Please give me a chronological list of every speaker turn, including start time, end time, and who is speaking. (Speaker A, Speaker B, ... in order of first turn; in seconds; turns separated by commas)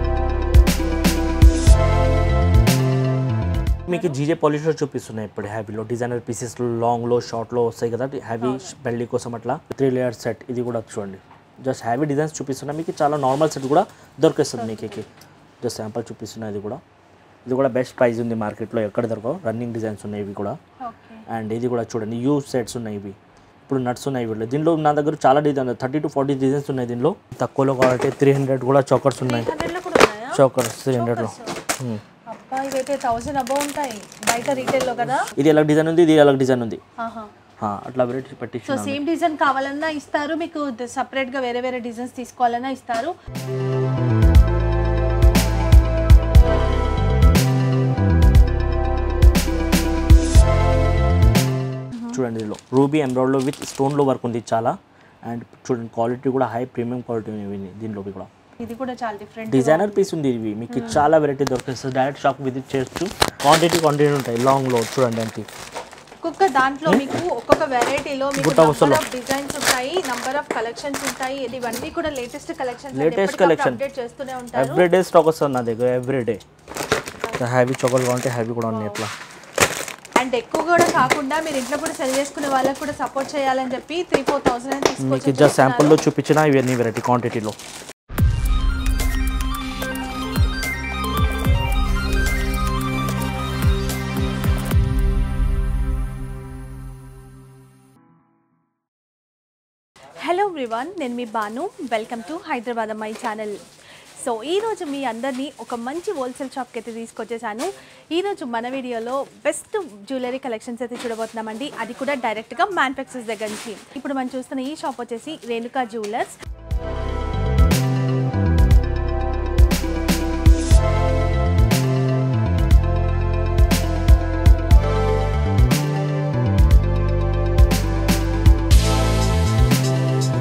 Speaker A: 3.9-15.1, Speaker B: 3.9-4.2, Speaker B: 8.4-8.7, Speaker B: 14.6-15.0, Speaker A: 15.6-16.8, Speaker A: 17.4-20.6, Speaker B: 20.8-21.2, Speaker A: 21.3-23.2, Speaker A: 23.7-29.5, Speaker B: 29.2-30.4, Speaker A: 30.3-32.0, Speaker B: 30.9-31.6, Speaker B: 32.2-35.3, Speaker A: 35.3-36.8, Speaker B: 37.0-37.3, Speaker A: 37.6-39.0, Speaker B: 38.6-43.1, Speaker B: 51.9-52.2, Speaker A: 52.1-58.3, Speaker B: 58.6-60.1, Speaker A: 59.5-65.5, Speaker B: 60.7-61.0, Speaker B: 66.2-74.9, Speaker A: 66.9-67.1, Speaker A: 68.4-69.0, Speaker A: 72.9-73.8, Speaker A: 74.5-76.4, Speaker A: 77.4-79.1, Speaker B: 78.7-79.0, Speaker B: 80.2-86.0, Speaker A: 85.0-87.6, Speaker B: 100.2-103.6, Speaker B: 104.2-116.3